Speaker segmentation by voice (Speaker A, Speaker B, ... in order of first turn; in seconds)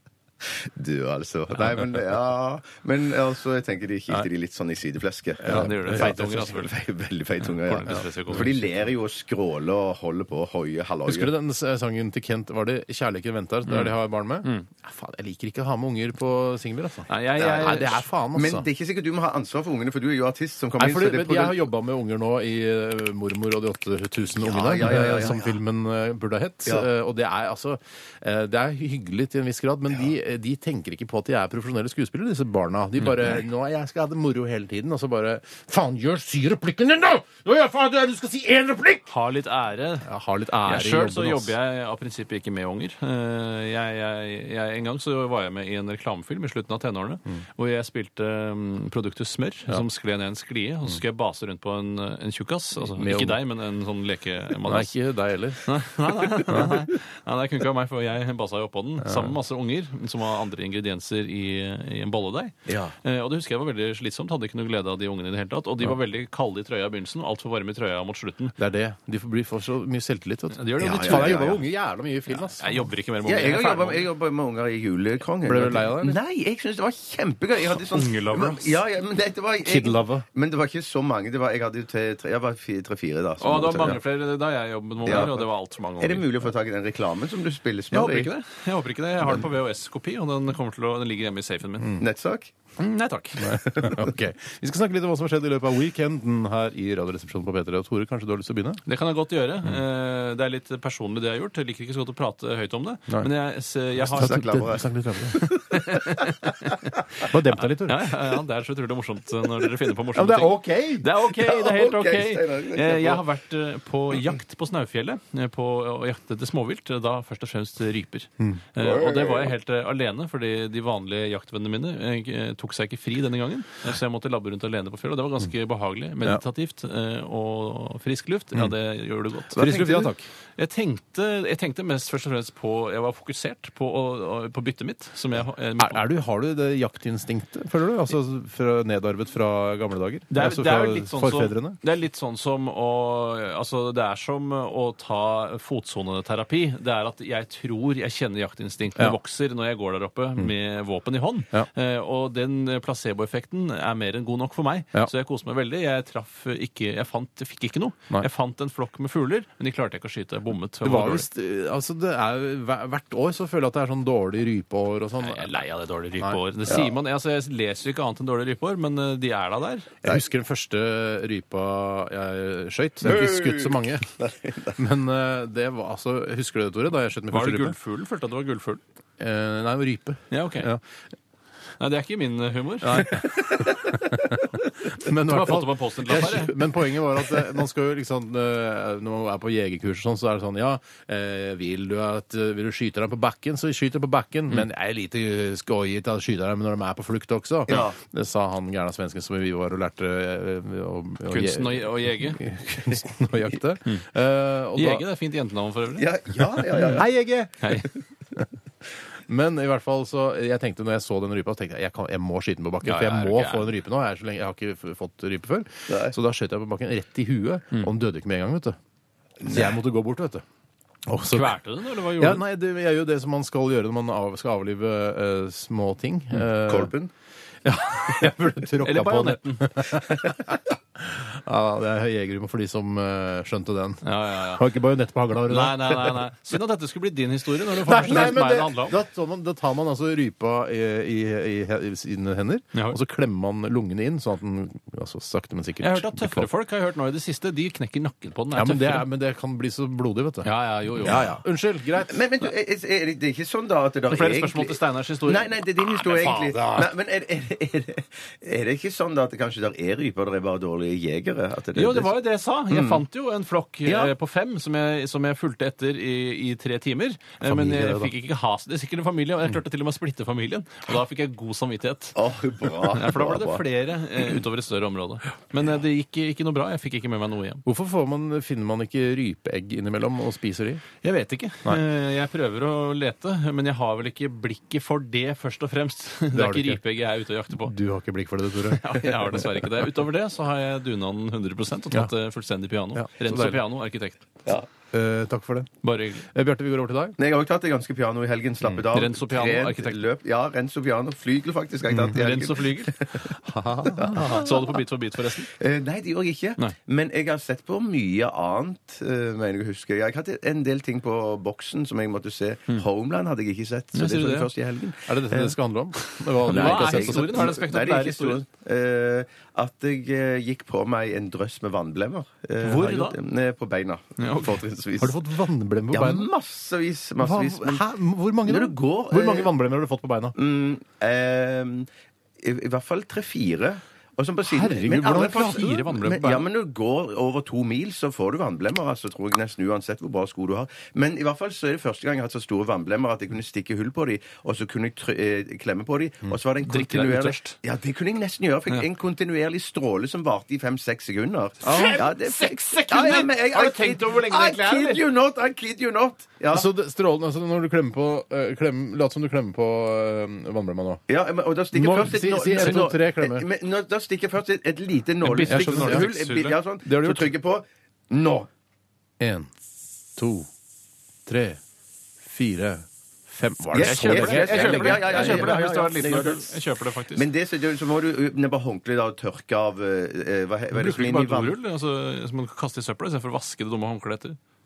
Speaker A: 0.5-11.3, 17.4-21.6, 24.4-25.6, 62.7-63.0, 70.8-71.6, 73.2-84.0, 85.1-85.5, 86.0-88.3, 92.0-92.5, 93.7-94.1, 104.1-106.3, 111.3-113.2, 118.8-119.5, 129.6-130.1, 173.1-174.8, 197.7-197.9, 206.0-207.1, 215.9-216.2, 219.4-219.7, 226.6-227.1, 252.0-262.1, 262.7-263.0, 263.9-264.1, 272.1-273.6, 297.2-304.7, 305.5-315.5, 316.4-325.2, 325.9-327.9, 328.4-329.5, 330.4-331.9, 332.4-356.7, 361.1-368.5, 373.7-376.6, 377.1-381.5
Speaker B: 5.4-6.5, 7.9-8.5, 11.1-18.7, 20.8-39.1, 40.0-41.5, 53.0-53.4, 54.6-55.7, 56.4-56.8, 59.0-59.3, 68.6-72.8, 75.4-76.2, 79.6-80.3, 93.4-98.8, 104.0-105.5, 107.2-108.2, 110.2-111.1, 129.6-130.3, 135.8-141.8, 160.8-165.5, 170.0-174.1, 174.8-177.8, 179.2-180.8, 182.8-205.0, 206.9-208.4, 209.3-218.8, 219.4-220.4, 221.1-221.6, 222.1-226.9, 227.6-236.2, 237.8-246.5, 248.5-250.5, 251.0-252.2, 256.0-256.9, 267.4-268.1, 277.6-280.8, 286.3-286.8, 287.6-289.7, 292.9-293.6, 294.9-295.7, 296.3-297.2, 303.4-304.5, 315.1-317.5, 325.0-326.3, 327.2-330.4, 334.5-336.0, 351.6-352.1, 356.5-361.0, 361.7-363.5, 365.5-366.1, 366.9-367.3, 369.2-369.5, 370.1-370.5, 371.3-371.6, 372.2-375.6
Speaker C: 5.5-6.7, 7.4-8.6, 13.7-14.7, 17.1-18.0, 39.1-40.1, 40.7-54.9, 55.6-68.5, 70.5-71.5, 72.6-74.1, 77.9-78.8, 83.4-86.3, 87.9-91.9, 92.8-93.6, 98.9-104.5, 105.3-107.2, 107.8-129.6, 130.6-136.0, 140.3-161.3, 165.2-169.9, 177.3-178.8, 180.3-180.7, 181.8-183.5, 185.1-186.6, 201.3-202.4, 204.8-206.1, 207.6-207.9, 212.8-213.7, 221.3-222.4, 228.8-229.9, 234.0-234.7, 235.5-239.0, 245.8-249.1, 250.4-251.3, 254.1-255.5, 261.8-277.6, 281.0-287.7, 288.7-294.2, 295.8-296.3, 298.9-300.1, 302.1-302.9, 304.1-305.5, 313.9-314.5, 316.1-318.4, 322.6-323.2, 324.2-324.6, 335.1-336.4, 346.6-347.6, 351.6-355.0, 365.2-366.6, 373.8-377.3, 380.7-384.4